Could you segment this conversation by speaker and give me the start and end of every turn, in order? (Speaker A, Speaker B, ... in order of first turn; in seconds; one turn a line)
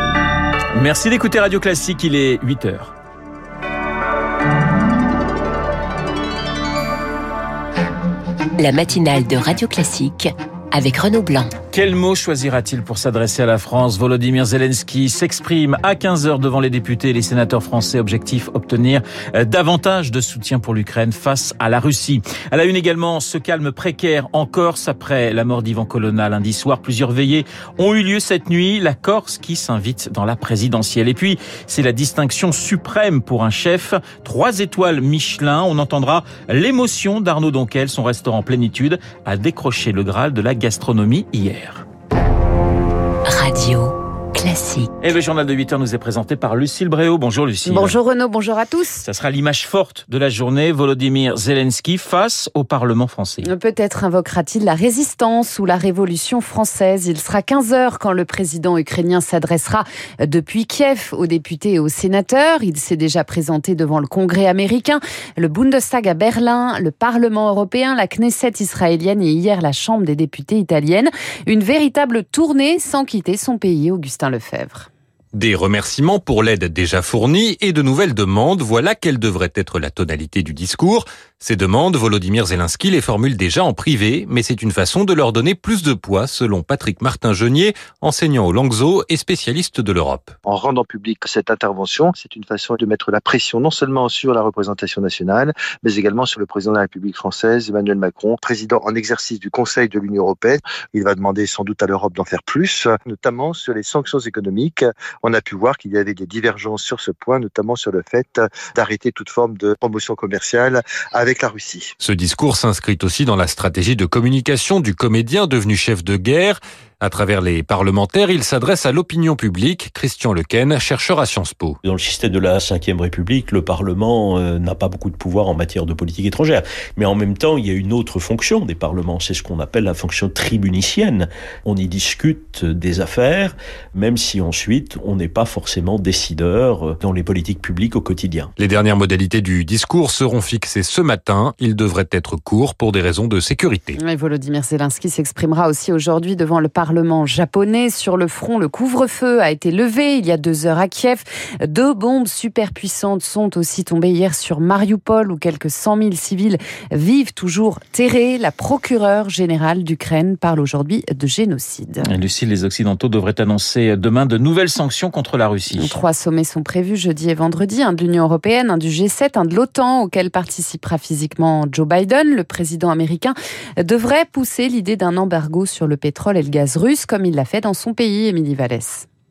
Speaker A: 0.7-2.9
Speaker B: 8.6-11.5
Speaker A: 11.7-41.8
Speaker B: 43.2-44.9
Speaker A: 45.0-48.0
Speaker C: 47.6-49.0
Speaker A: 49.0-53.5
Speaker C: 53.4-74.9
Speaker D: 75.3-90.3
Speaker E: 90.4-111.9
Speaker D: 112.0-121.8
Speaker F: 121.8-138.5
Speaker D: 138.6-143.9
Speaker C: 143.9-162.1
Speaker A: 162.0-166.0
Speaker C: 165.7-179.0